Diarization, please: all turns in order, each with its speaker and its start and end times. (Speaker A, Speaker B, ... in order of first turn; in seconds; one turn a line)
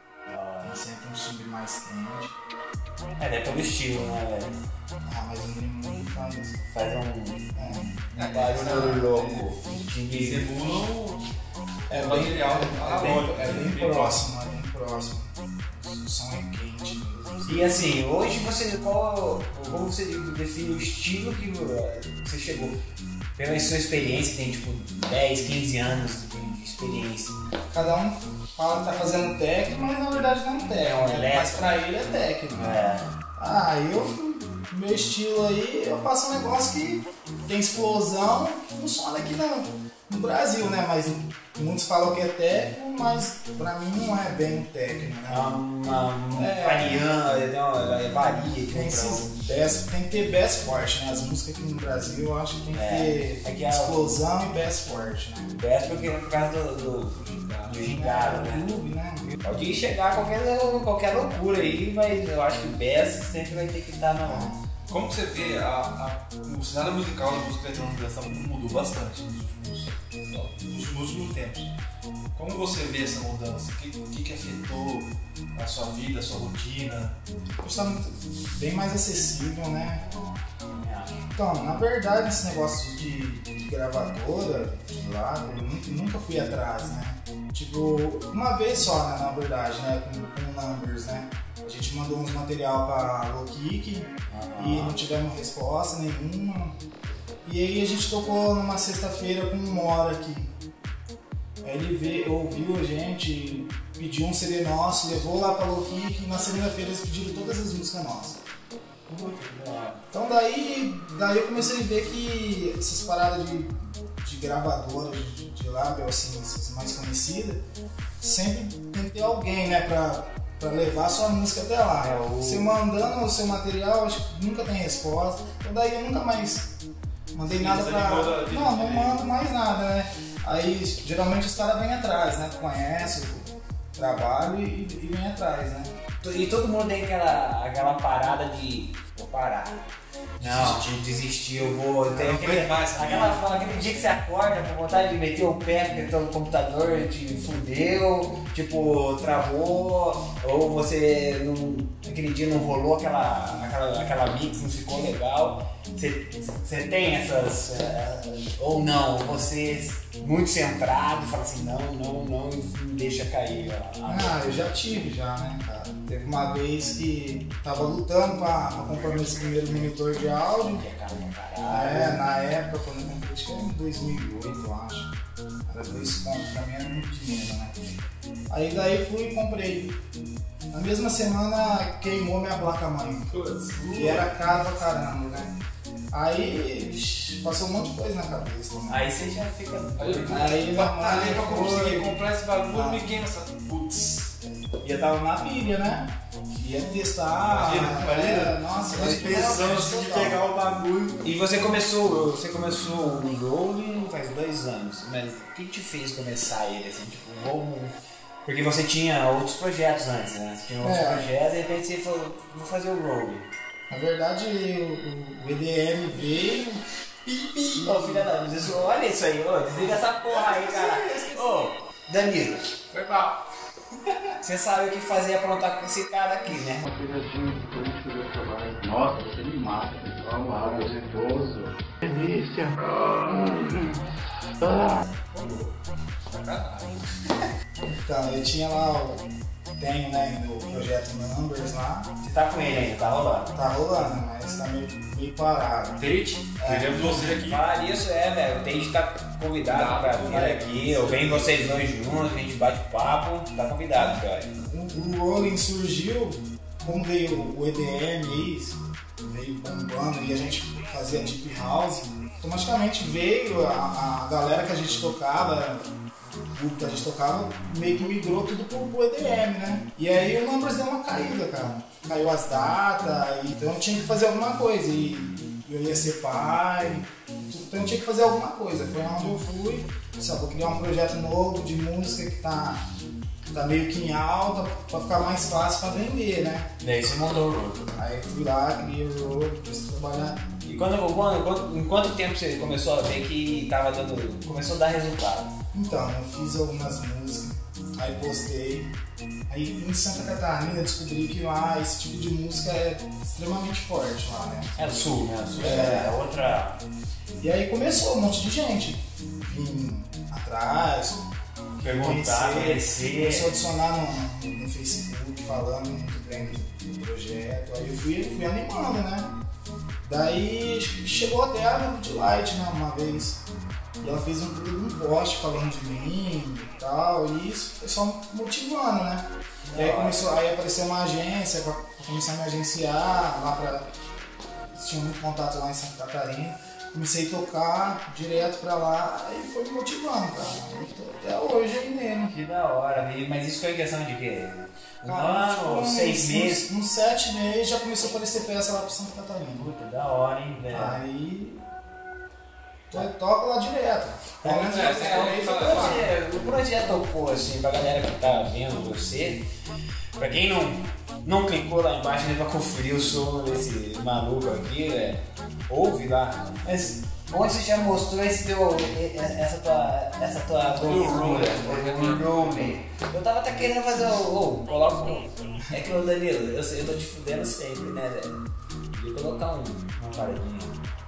Speaker A: 0.3-0.8
Speaker B: 0.6-2.3
Speaker A: 3.2-4.6
Speaker B: 5.0-6.6
Speaker A: 6.7-7.5
Speaker B: 7.5-8.1
Speaker C: 8.1-9.5
Speaker A: 8.2-10.5
Speaker C: 10.0-11.2
Speaker B: 11.9-17.8
Speaker C: 12.0-14.2
Speaker A: 17.4-22.8
Speaker A: 23.4-27.3
Speaker B: 27.7-32.8
Speaker A: 30.8-31.9
Speaker A: 32.5-33.1
Speaker B: 33.4-45.5
Speaker A: 45.3-49.3
Speaker B: 46.3-47.1
Speaker B: 48.7-55.5
Speaker A: 52.7-54.0
Speaker A: 55.5-58.6
Speaker C: 57.1-57.7
Speaker B: 57.8-59.4
Speaker A: 59.4-64.5
Speaker B: 64.2-64.6
Speaker C: 64.9-71.7
Speaker C: 72.3-77.1
Speaker B: 77.6-80.0
Speaker A: 80.7-81.2
Speaker B: 81.3-96.8
Speaker A: 94.3-95.0
Speaker B: 97.4-100.5
Speaker B: 101.6-108.4
Speaker A: 109.1-110.0
Speaker B: 110.1-117.6
Speaker B: 118.2-126.7
Speaker A: 121.9-122.8
Speaker B: 127.3-135.9
Speaker C: 127.4-129.2
Speaker A: 136.2-139.8
Speaker C: 140.4-141.0
Speaker A: 140.4-164.4
Speaker C: 141.6-144.1
Speaker B: 164.1-170.8
Speaker A: 170.7-172.2
Speaker B: 171.7-175.1
Speaker B: 175.7-177.8
Speaker B: 178.5-180.0
Speaker B: 180.7-183.3
Speaker C: 183.3-184.3
Speaker B: 183.9-185.6
Speaker B: 186.1-189.1
Speaker A: 188.9-190.7
Speaker C: 190.0-194.3
Speaker B: 190.3-192.2
Speaker B: 192.7-193.0
Speaker B: 194.8-200.4
Speaker C: 197.4-201.2
Speaker A: 201.2-213.5
Speaker B: 210.8-211.3
Speaker B: 213.9-216.8
Speaker B: 217.7-218.3
Speaker A: 217.7-222.8
Speaker B: 220.2-221.6
Speaker A: 224.4-226.8
Speaker D: 226.8-234.0
Speaker D: 234.6-235.1
Speaker C: 235.3-235.7
Speaker C: 236.3-237.3
Speaker B: 237.9-239.2
Speaker B: 239.8-242.1
Speaker A: 242.2-243.5
Speaker B: 243.5-246.0
Speaker C: 246.0-247.6
Speaker B: 246.6-247.3
Speaker A: 246.9-254.5
Speaker C: 249.7-251.7
Speaker B: 254.6-265.9
Speaker B: 266.5-282.8
Speaker B: 283.5-286.7
Speaker A: 286.8-287.9
Speaker B: 287.9-290.4
Speaker A: 290.6-295.5
Speaker B: 295.7-298.9
Speaker B: 299.5-304.8
Speaker A: 304.8-306.8
Speaker B: 305.6-306.2
Speaker B: 307.4-311.2
Speaker B: 311.8-319.3
Speaker A: 311.8-313.5
Speaker B: 320.0-323.4
Speaker B: 324.0-333.9
Speaker A: 329.6-330.3
Speaker B: 334.7-342.3
Speaker A: 342.3-346.7
Speaker B: 345.0-349.7
Speaker A: 349.6-351.0
Speaker B: 350.7-351.6
Speaker B: 352.9-356.1
Speaker C: 354.4-356.1
Speaker A: 354.4-359.5
Speaker A: 360.2-378.4
Speaker C: 370.8-372.8
Speaker A: 378.9-380.8